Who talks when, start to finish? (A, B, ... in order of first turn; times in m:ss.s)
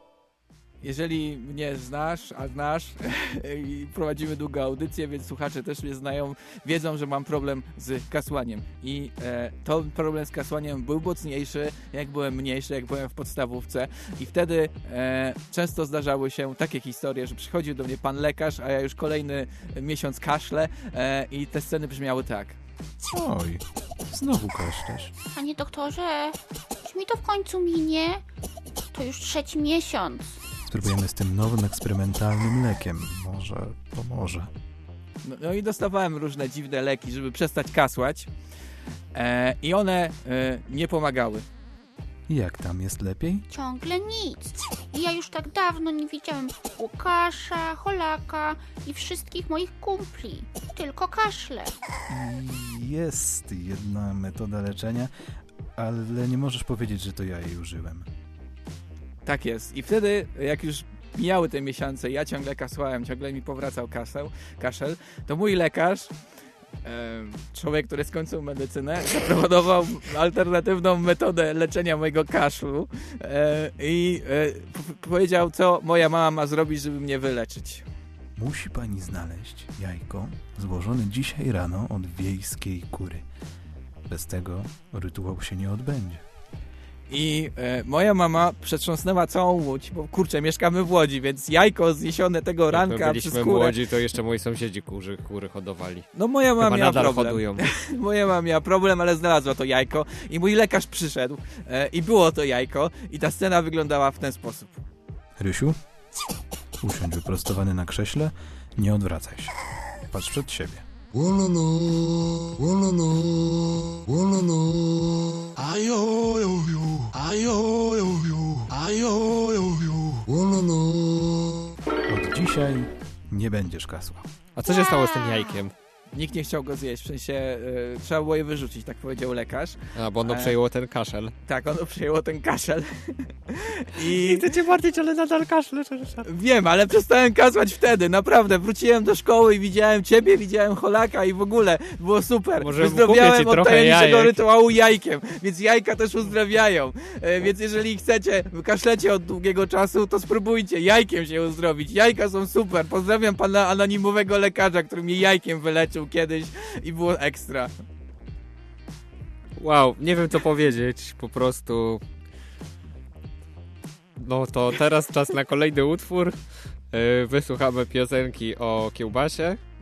0:00.8-0:22.6 A
0:23.1-0:25.1 B
0:25.4-0:26.3 C
0:26.9-0:28.2 C
0:29.0-0:30.2 C
0:30.7-0:34.5 B
0:35.2-0:38.3 A
0:39.1-0:41.4 A
0:42.3-0:43.4 B
0:43.5-0:51.7 C
0:52.1-0:55.1 B
0:55.8-0:58.1 B
0:59.3-1:06.1 A
1:06.8-1:17.8 A
1:18.4-1:23.3 B
1:24.1-1:26.2 B
1:27.1-1:33.7 A
1:32.7-1:36.1 D
1:36.1-1:44.8 A
1:36.6-1:37.6 D
1:45.4-1:45.8 B
1:46.8-1:49.5 B
1:50.1-1:50.8 B
2:02.1-2:04.3 B
2:04.6-2:05.7 D
2:06.1-2:10.5 A
2:10.0-2:11.3 D
2:11.5-2:14.5 A
2:14.0-2:16.3 D
2:16.2-2:37.7 A
2:22.6-2:24.4 D
2:39.6-2:42.0 D
2:44.2-2:46.4 D
2:46.9-2:49.6 D